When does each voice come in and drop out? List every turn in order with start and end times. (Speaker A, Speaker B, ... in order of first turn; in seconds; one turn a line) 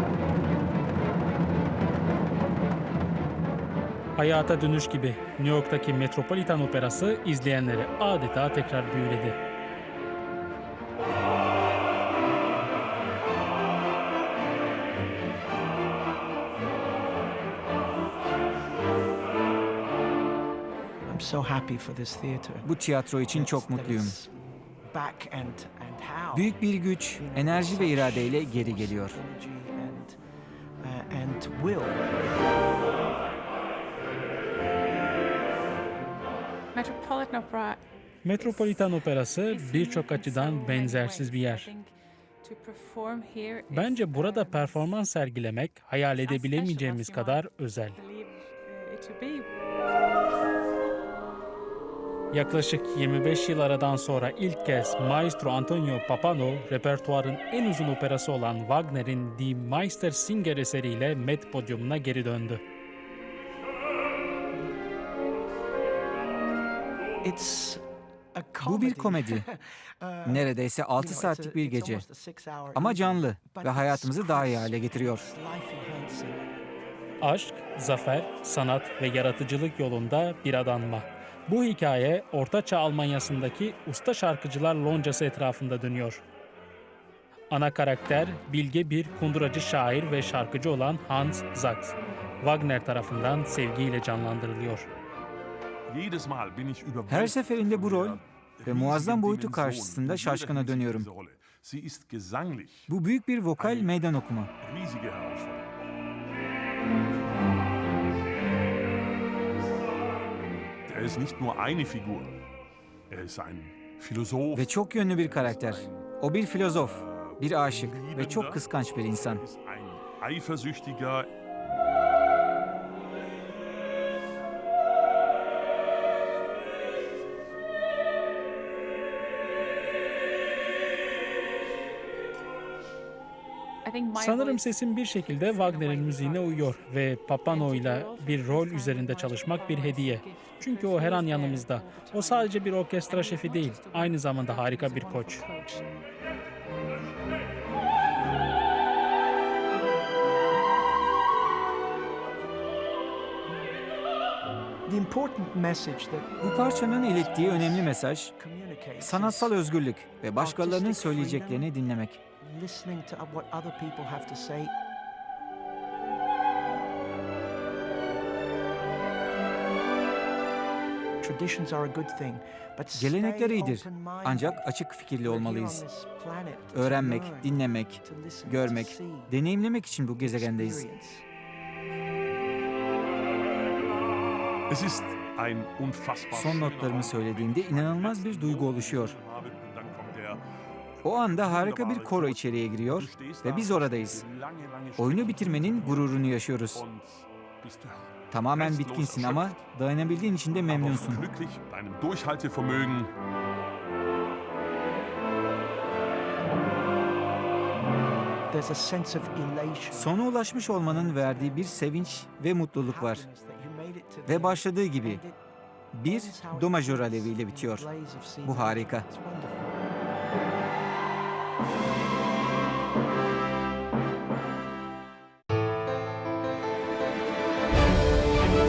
Speaker A: 4.2-9.4
Speaker B: 21.1-22.7
Speaker C: 22.6-24.2
Speaker B: 23.3-24.3
Speaker B: 24.9-26.5
Speaker C: 26.3-29.2
Speaker B: 27.1-30.2
Speaker B: 30.8-32.0
Speaker D: 36.8-37.8
Speaker A: 38.2-41.7
Speaker D: 38.4-38.8
Speaker D: 39.5-44.9
Speaker A: 43.7-48.0
Speaker D: 46.2-47.4
Speaker D: 48.0-49.5
Speaker A: 52.3-62.6
Speaker B: 67.2-67.8
Speaker B: 68.3-76.4
Speaker C: 68.6-69.5
Speaker C: 70.2-72.0
Speaker C: 72.7-75.3
Speaker A: 77.2-86.2
Speaker A: 87.5-94.8
Speaker E: 95.9-102.9
Speaker C: 97.1-101.1
Speaker C: 102.9-104.5
Speaker E: 103.6-104.0
Speaker E: 104.6-105.7
Speaker E: 110.8-112.3
Speaker E: 113.1-116.1
Speaker C: 114.5-119.4
Speaker E: 116.7-121.3
Speaker D: 133.8-136.9
Speaker A: 134.2-145.4
Speaker D: 137.5-145.9
Speaker B: 154.8-156.3
Speaker C: 156.4-158.3
Speaker B: 157.1-159.5
Speaker C: 159.0-162.2
Speaker B: 160.3-161.7
Speaker B: 162.4-164.7
Speaker B: 171.2-174.7
Speaker C: 172.9-175.8
Speaker B: 175.2-179.3
Speaker C: 176.7-180.8
Speaker B: 180.2-181.2
Speaker E: 184.7-190.4
Speaker C: 186.3-189.1
Speaker C: 191.0-194.2
Speaker E: 191.1-199.7
Speaker C: 195.0-196.8
Speaker C: 198.3-201.3
Speaker E: 200.6-203.1
Speaker B: 208.5-210.2
Speaker C: 209.9-213.3
Speaker B: 210.7-211.7
Speaker B: 212.8-215.4
Speaker C: 214.3-215.2
Speaker C: 215.9-217.9
Speaker B: 216.0-219.7
Speaker C: 218.4-219.1